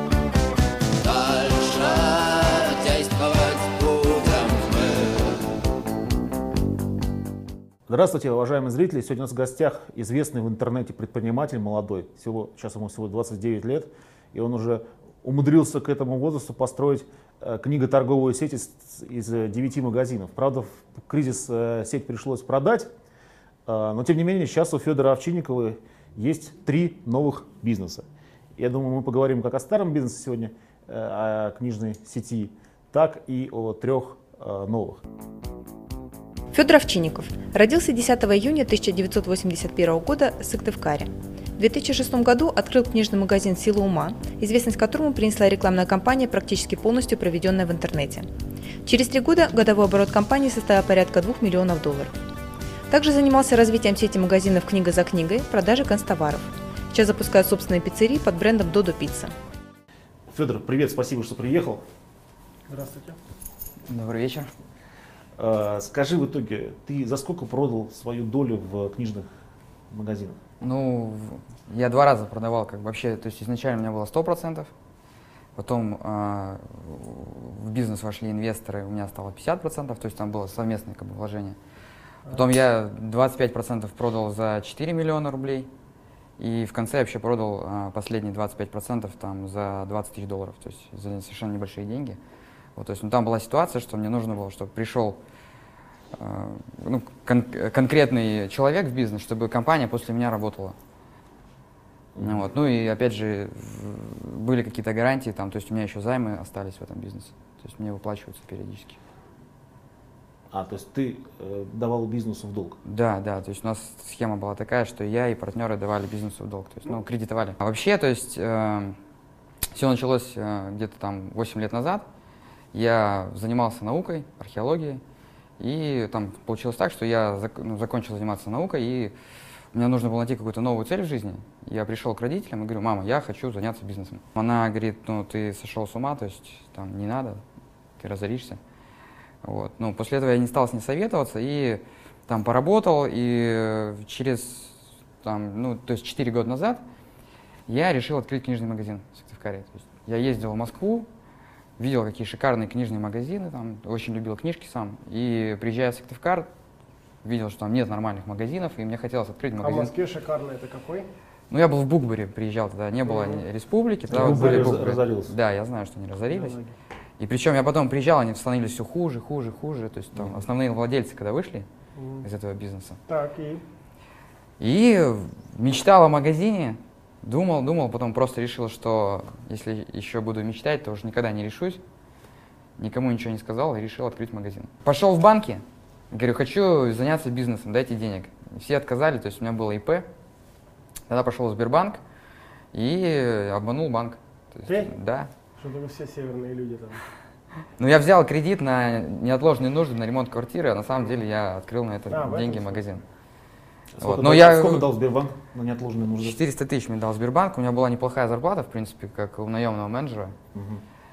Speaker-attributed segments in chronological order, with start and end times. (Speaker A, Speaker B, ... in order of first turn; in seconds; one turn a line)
Speaker A: 1.0-5.4
Speaker B: 7.9-22.9
Speaker B: 23.7-28.1
Speaker B: 28.6-35.0
Speaker C: 36.5-48.3
Speaker C: 48.8-52.1
Speaker C: 52.9-59.3
Speaker B: 60.3-61.8
Speaker D: 62.7-63.2
Speaker E: 63.9-64.5
Speaker B: 65.4-69.3
Speaker B: 69.9-70.4
Speaker E: 70.6-74.7
Speaker E: 75.6-81.6
Speaker E: 82.3-85.7
Speaker E: 86.4-92.2
Speaker E: 92.8-95.2
Speaker E: 96.1-100.8
Speaker B: 102.2-102.5
Speaker E: 102.2-109.0
Speaker B: 110.5-112.8
Speaker E: 112.8-119.0
Speaker E: 119.7-122.1
Speaker E: 122.7-125.0
Speaker E: 125.6-129.1
Speaker E: 129.7-137.4
Speaker E: 138.0-138.6
Speaker E: 139.4-146.8
Speaker E: 147.7-151.1
Speaker E: 151.8-156.5
Speaker E: 157.2-159.9
Speaker D: 159.6-161.1
Speaker E: 161.5-166.6
Speaker D: 163.1-163.4
Speaker D: 164.1-164.9
Speaker B: 164.1-165.3
Speaker D: 166.3-166.7
Speaker E: 167.2-171.7
Speaker B: 170.1-170.4
Speaker D: 172.0-172.2
Speaker E: 172.2-173.0
Speaker D: 173.1-173.6
Speaker E: 174.6-181.8
Speaker E: 182.8-190.1
Speaker E: 191.1-192.0
Speaker E: 192.7-195.3
Speaker D: 194.6-194.9
Speaker D: 195.6-197.0
Speaker E: 197.8-203.0
Speaker D: 202.1-202.8
Speaker B: 203.9-206.4
Speaker E: 204.0-204.9
Speaker E: 206.2-210.3
Speaker B: 210.5-210.8